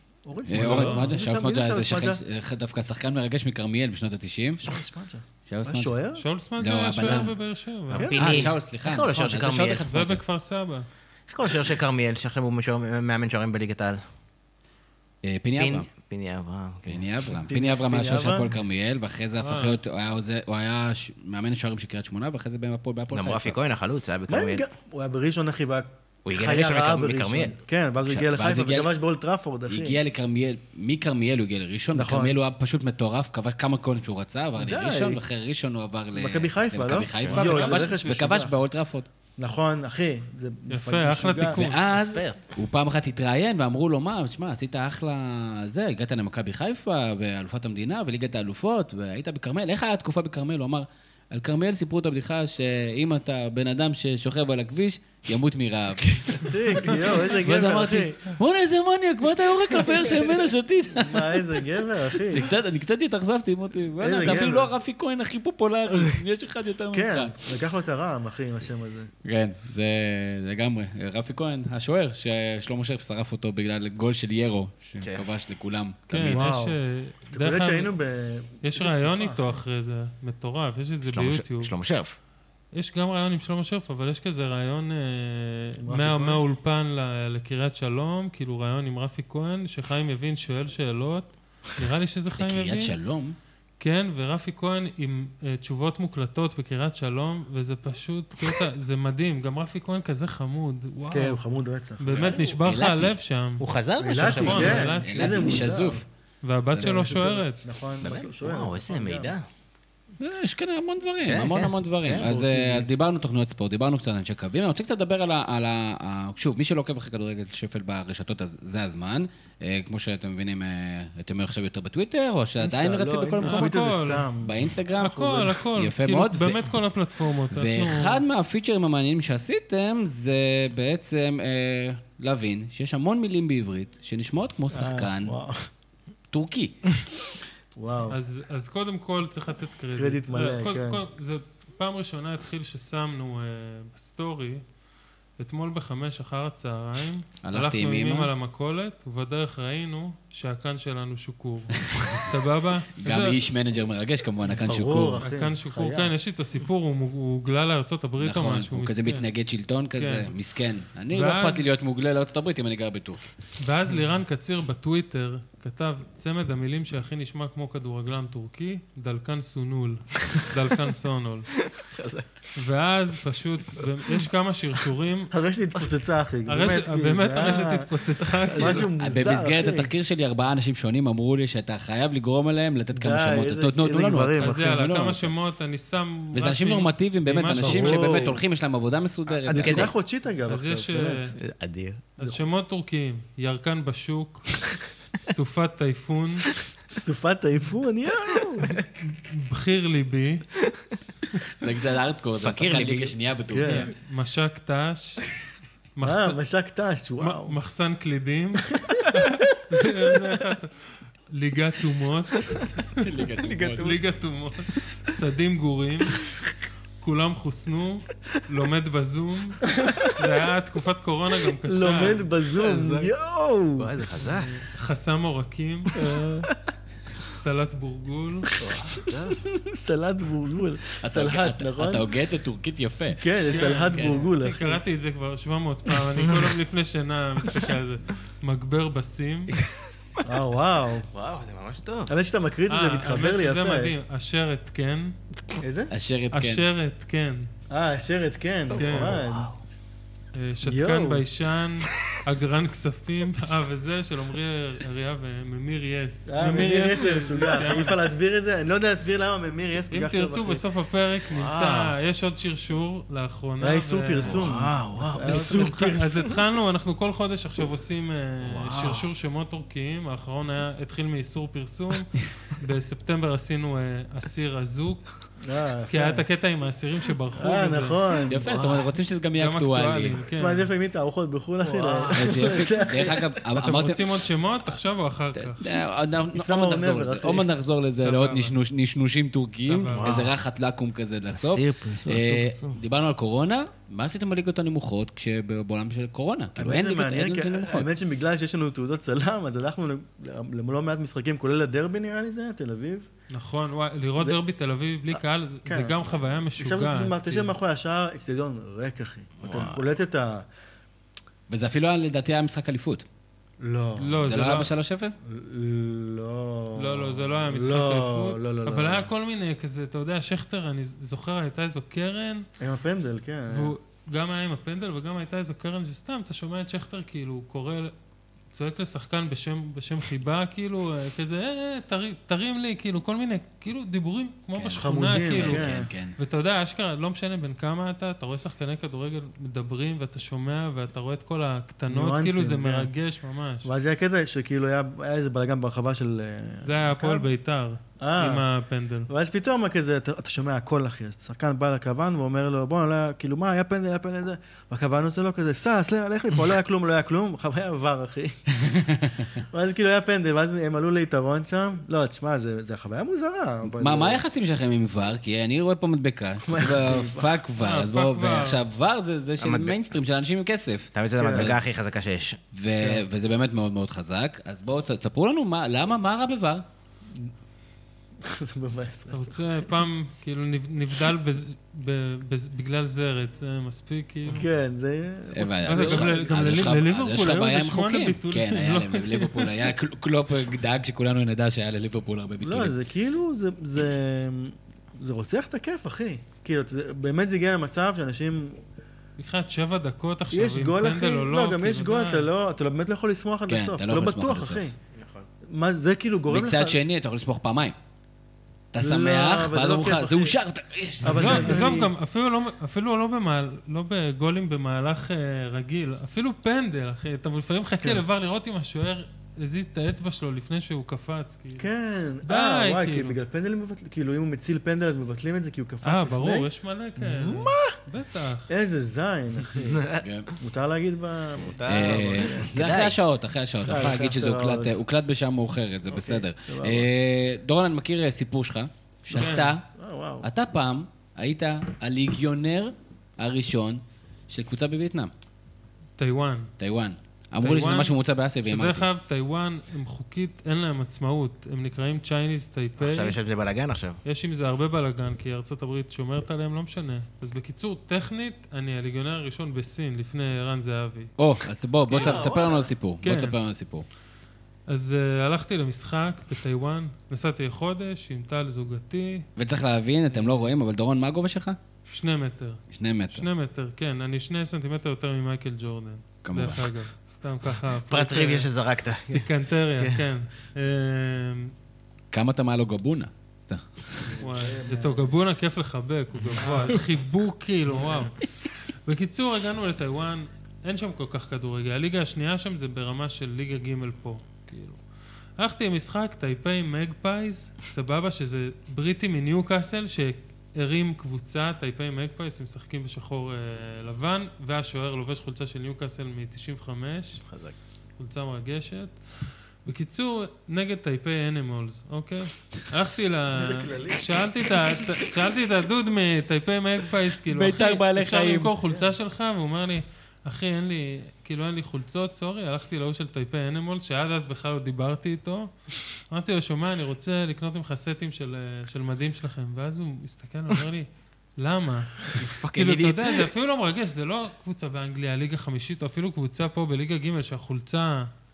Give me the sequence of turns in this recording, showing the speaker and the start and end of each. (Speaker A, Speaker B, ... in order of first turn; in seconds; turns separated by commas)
Speaker A: 0.2-2.2, Speaker B: 0.5-4.7, Speaker C: 0.6-1.2, Speaker A: 4.6-6.2, Speaker B: 5.5-6.0, Speaker C: 6.2-8.1, Speaker B: 6.6-7.4, Speaker A: 7.9-8.6, Speaker D: 7.9-9.9, Speaker B: 8.0-10.2, Speaker C: 9.9-10.9, Speaker D: 11.3-14.0, Speaker B: 15.2-15.9, Speaker D: 15.6-17.3, Speaker B: 16.9-23.6, Speaker A: 17.5-18.5, Speaker C: 19.4-19.8, Speaker D: 23.1-24.6, Speaker A: 24.3-30.0, Speaker D: 26.3-27.6, Speaker B: 28.1-28.9, Speaker B: 29.7-39.1, Speaker A: 31.9-32.4, Speaker A: 34.6-35.2, Speaker A: 36.1-38.6, Speaker C: 37.3-38.0, Speaker A: 39.4-41.6, Speaker C: 40.7-41.8, Speaker B: 41.5-56.8, Speaker D: 41.9-42.4, Speaker A: 56.4-58.3, Speaker C: 56.9-57.1, Speaker B: 57.4-61.6, Speaker A: 60.0-60.3, Speaker A: 60.9-62.5, Speaker B: 62.2-67.3, Speaker A: 64.0-64.7, Speaker A: 66.9-69.1, Speaker B: 69.2-76.4, Speaker D: 75.0-75.3, Speaker C: 76.1-77.9, Speaker A: 76.3-76.8, Speaker A: 77.3-79.6, Speaker C: 78.6-81.8, Speaker D: 81.0-82.2, Speaker C: 82.7-93.0, Speaker A: 85.8-86.4, Speaker B: 92.3-93.4, Speaker C: 93.8-101.4, Speaker A: 101.1-102.4, Speaker C: 102.0-103.7, Speaker D: 102.1-102.5, Speaker B: 102.6-103.2, Speaker D: 103.6-105.0, Speaker A: 104.0-106.0, Speaker C: 104.2-105.7, Speaker B: 104.5-106.0, Speaker C: 106.4-107.6, Speaker B: 106.7-107.0, Speaker A: 106.8-109.4, Speaker D: 108.0-109.5, Speaker B: 110.2-123.8, Speaker D: 111.2-112.3, Speaker A: 112.1-112.9, Speaker A: 122.6-124.7, Speaker C: 123.4-124.3, Speaker B: 124.4-126.7, Speaker C: 125.0-128.2, Speaker B: 127.5-135.4, Speaker A: 134.7-135.7, Speaker B: 136.3-136.8, Speaker A: 137.8-138.2, Speaker C: 138.1-144.6, Speaker A: 139.9-141.0, Speaker C: 145.4-153.4, Speaker B: 147.4-148.3, Speaker B: 153.0-155.2, Speaker A: 154.7-156.1, Speaker C: 155.2-159.3, Speaker B: 158.2-163.2, Speaker C: 160.0-160.3, Speaker C: 161.1-161.7, Speaker C: 163.6-171.6, Speaker D: 171.7-172.3, Speaker C: 172.6-175.3, Speaker A: 175.3-177.9, Speaker C: 176.5-178.9, Speaker D: 178.5-178.7, Speaker A: 178.5-179.9, Speaker B: 179.0-185.3, Speaker A: 182.9-184.8, Speaker C: 184.4-188.3, Speaker B: 186.3-189.9, Speaker A: 187.6-188.4, Speaker A: 189.4-191.3, Speaker D: 189.5-189.9, Speaker C: 190.5-191.4, Speaker D: 191.4-192.0, Speaker C: 192.2-194.7, Speaker C: 195.2-196.5, Speaker A: 196.9-198.8, Speaker C: 199.1-200.4, Speaker B: 201.6-203.9, Speaker D: 202.4-203.1, Speaker A: 203.5-203.9, Speaker C: 203.7-205.3, Speaker C: 206.0-206.4, Speaker A: 206.0-207.6, Speaker C: 207.2-213.0, Speaker B: 213.0-213.9, Speaker D: 213.4-214.0, Speaker C: 213.8-216.3, Speaker C: 217.0-222.2, Speaker A: 221.7-223.9, Speaker D: 222.5-223.1, Speaker D: 223.8-224.6, Speaker C: 224.2-226.0, Speaker A: 225.9-226.5, Speaker C: 227.3-228.5, Speaker D: 228.6-229.4, Speaker A: 229.4-232.1, Speaker B: 231.0-234.3, Speaker A: 233.1-234.8, Speaker C: 233.4-239.6, Speaker A: 240.2-241.1, Speaker D: 241.1-242.1, Speaker A: 242.1-243.9, Speaker C: 242.7-245.1, Speaker A: 245.6-245.9, Speaker B: 245.9-246.6, Speaker C: 246.3-247.5, Speaker A: 247.7-249.5, Speaker C: 248.7-249.2, Speaker D: 248.7-249.6, Speaker C: 250.3-258.0, Speaker A: 250.6-251.2, Speaker A: 256.3-260.6, Speaker C: 259.9-264.6, Speaker D: 261.3-261.9, Speaker A: 263.6-266.1, Speaker D: 264.2-266.2, Speaker C: 265.2-275.2, Speaker D: 268.4-269.1, Speaker A: 275.4-276.3, Speaker C: 275.9-278.0, Speaker A: 277.4-278.5, Speaker B: 278.3-280.2, Speaker D: 278.4-278.9, Speaker C: 279.4-280.7, Speaker A: 280.3-283.3, Speaker D: 281.6-282.6, Speaker B: 282.1-284.2, Speaker C: 283.6-285.7, Speaker B: 285.4-297.9, Speaker A: 286.3-287.5, Speaker C: 288.0-288.6, Speaker C: 289.6-290.3, Speaker D: 289.9-290.3, Speaker D: 291.4-292.8, Speaker A: 296.6-303.1, Speaker C: 303.3-307.5, Speaker A: 305.1-310.5, Speaker D: 309.4-309.8, Speaker B: 311.5-313.1, Speaker A: 313.6-314.3, Speaker C: 314.0-314.7, Speaker B: 314.2-315.2, Speaker A: 315.2-319.1, Speaker C: 316.8-322.5, Speaker A: 322.6-323.8, Speaker C: 323.5-327.9, Speaker C: 328.5-343.7, Speaker B: 334.5-336.2, Speaker A: 334.8-335.9, Speaker A: 341.9-342.9, Speaker A: 343.6-347.3, Speaker C: 346.6-349.1, Speaker A: 348.0-348.4, Speaker A: 349.1-358.4, Speaker B: 358.6-359.2, Speaker A: 359.4-364.2, Speaker B: 363.6-371.6, Speaker A: 366.4-367.4, Speaker C: 367.6-368.6, Speaker D: 369.4-369.8, Speaker D: 370.9-372.4, Speaker A: 371.2-371.6, Speaker B: 372.5-376.6, Speaker A: 372.8-373.1, Speaker A: 378.2-379.7, Speaker C: 379.1-384.5, Speaker A: 384.3-386.8, Speaker B: 385.3-392.8, Speaker C: 385.7-389.6, Speaker A: 392.4-398.6, Speaker C: 399.2-402.3, Speaker A: 400.3-404.8, Speaker B: 403.5-404.7, Speaker D: 404.9-405.3, Speaker A: 405.4-406.8, Speaker B: 406.3-407.8, Speaker B: 408.7-411.8, Speaker A: 408.8-410.4, Speaker A: 411.0-411.9, Speaker C: 411.1-421.7, Speaker A: 421.6-427.8, Speaker C: 422.2-423.2, Speaker C: 425.8-428.5, Speaker A: 428.5-429.8, Speaker D: 429.6-430.1, Speaker B: 430.0-430.3, Speaker A: 430.4-432.5, Speaker D: 431.4-433.0, Speaker B: 431.6-439.6, Speaker A: 433.6-434.8, Speaker A: 435.9-436.9, Speaker A: 439.1-440.3, Speaker C: 439.1-439.5, Speaker B: 440.2-445.1, Speaker C: 446.0-446.5, Speaker B: 446.6-448.9, Speaker C: 447.4-453.2, Speaker D: 452.8-454.0, Speaker C: 454.0-461.1, Speaker B: 461.2-463.9, Speaker A: 461.9-462.7, Speaker C: 461.9-462.3, Speaker C: 463.0-463.4, Speaker C: 464.7-469.3, Speaker B: 469.4-471.6, Speaker C: 470.1-470.4, Speaker C: 471.9-478.5, Speaker B: 472.7-473.3, Speaker B: 476.2-476.7, Speaker D: 477.9-480.0, Speaker C: 479.1-481.5, Speaker B: 482.1-484.2, Speaker A: 484.1-485.1, Speaker C: 484.2-494.8, Speaker A: 486.3-486.9, Speaker A: 487.7-488.1, Speaker C: 495.4-507.3, Speaker D: 507.3-507.6, Speaker C: 508.0-538.1, Speaker A: 513.3-514.4, Speaker B: 517.3-518.5, Speaker A: 518.6-518.9, Speaker D: 532.1-533.3